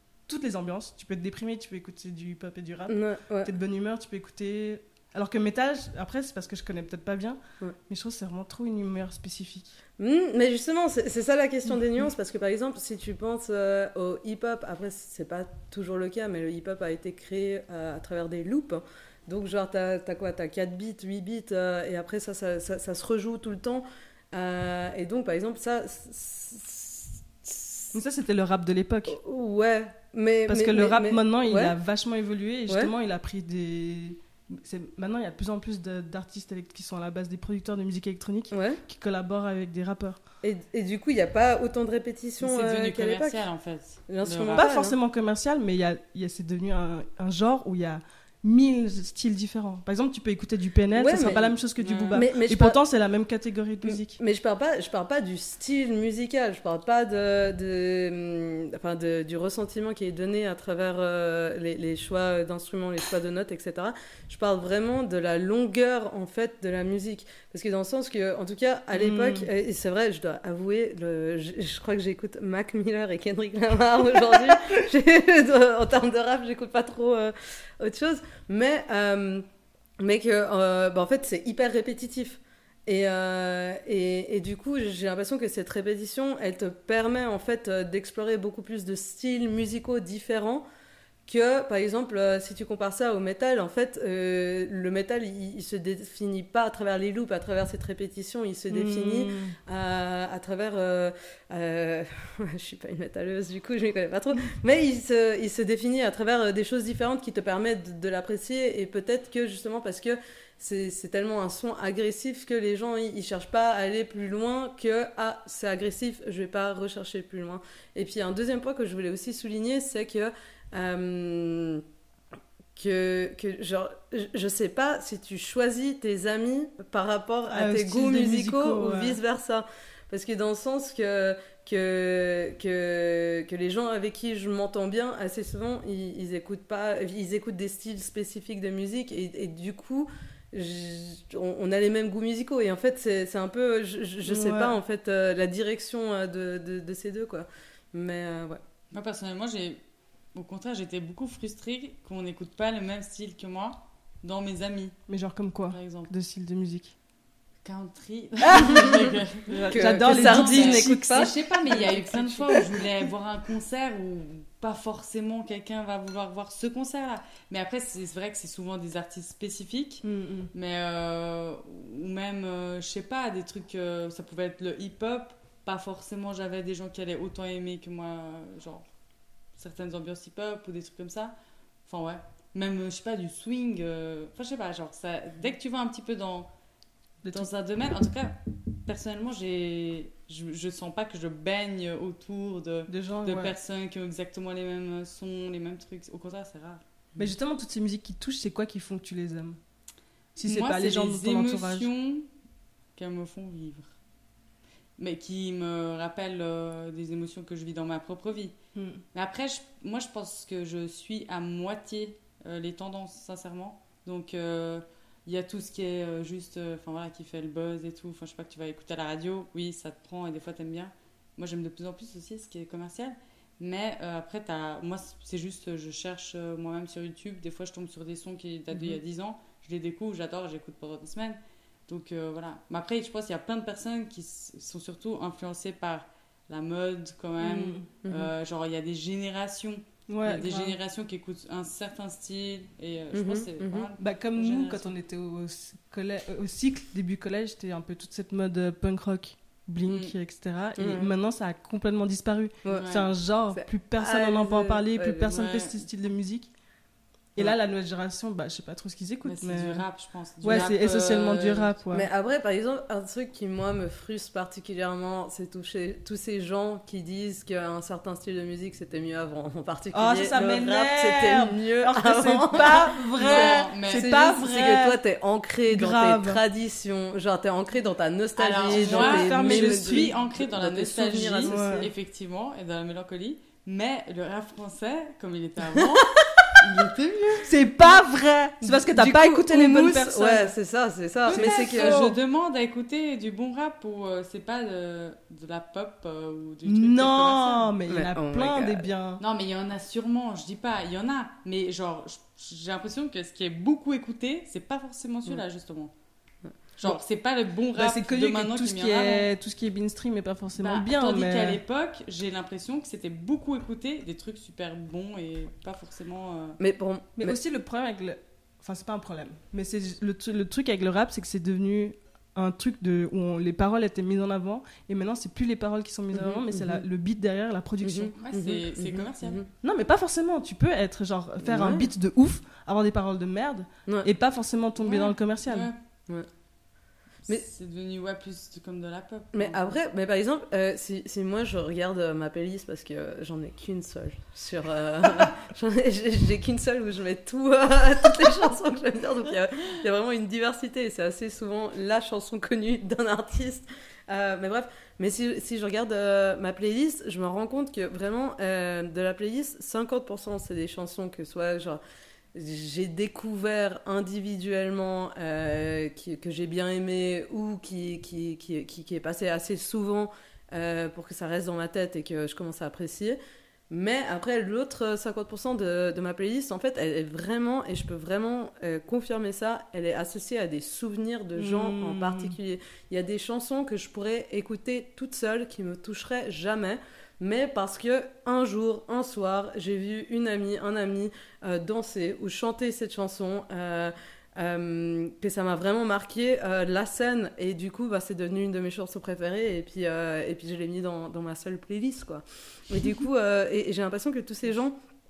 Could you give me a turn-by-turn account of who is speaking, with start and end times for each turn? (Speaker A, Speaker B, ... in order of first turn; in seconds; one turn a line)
Speaker A: 0.3-9.8
Speaker B: 2.9-3.5
Speaker B: 10.0-27.9
Speaker A: 27.9-29.2
Speaker B: 29.1-31.8
Speaker A: 30.5-40.2
Speaker B: 38.5-38.8
Speaker B: 40.4-43.4
Speaker C: 42.4-44.7
Speaker B: 44.1-45.0
Speaker A: 44.5-54.2
Speaker B: 51.0-51.5
Speaker C: 51.8-52.2
Speaker B: 52.1-52.8
Speaker B: 53.9-79.5
Speaker A: 69.0-69.5
Speaker B: 80.0-90.7
Speaker B: 91.3-121.8
Speaker A: 98.7-99.6
Speaker B: 122.8-148.6
Speaker A: 127.5-129.2
Speaker A: 144.2-144.8
Speaker C: 148.9-149.8
Speaker C: 150.3-154.9
Speaker A: 155.1-156.9
Speaker C: 155.7-156.1
Speaker C: 157.6-178.9
Speaker A: 158.4-161.4
Speaker B: 159.7-162.6
Speaker A: 170.0-170.5
Speaker C: 179.6-186.5
Speaker C: 187.3-196.8
Speaker A: 192.9-193.6
Speaker A: 197.2-199.6
Speaker A: 200.4-201.9
Speaker C: 200.4-202.3
Speaker C: 203.0-203.9
Speaker C: 205.0-208.6
Speaker A: 208.8-209.0
Speaker C: 209.1-244.9
Speaker A: 237.4-237.9
Speaker B: 238.0-238.3
Speaker A: 240.1-240.8
Speaker B: 243.1-243.9
Speaker A: 244.0-256.5
Speaker C: 249.8-250.1
Speaker B: 250.8-251.1
Speaker C: 252.7-253.1
Speaker B: 253.5-255.3
Speaker C: 255.3-255.8
Speaker A: 257.4-259.9
Speaker C: 259.2-261.7
Speaker A: 260.4-262.1
Speaker B: 261.9-281.9
Speaker A: 269.9-275.0
Speaker C: 273.2-274.1
Speaker A: 275.7-276.4
Speaker C: 278.4-287.5
Speaker A: 278.7-280.2
Speaker A: 281.3-281.9
Speaker A: 287.4-290.6
Speaker B: 288.6-292.1
Speaker C: 291.2-297.8
Speaker A: 291.3-292.2
Speaker A: 296.6-299.2
Speaker B: 297.9-298.9
Speaker C: 299.2-305.9
Speaker C: 306.8-309.3
Speaker A: 307.7-311.6
Speaker C: 310.6-316.6
Speaker B: 316.6-317.4
Speaker A: 317.2-328.2
Speaker B: 326.1-326.9
Speaker B: 327.8-329.5
Speaker C: 328.2-329.4
Speaker A: 329.6-335.7
Speaker B: 331.4-331.9
Speaker C: 334.8-335.8
Speaker C: 337.2-339.7
Speaker B: 339.3-361.8
Speaker B: 362.3-373.2
Speaker B: 373.7-404.8
Speaker A: 381.4-382.4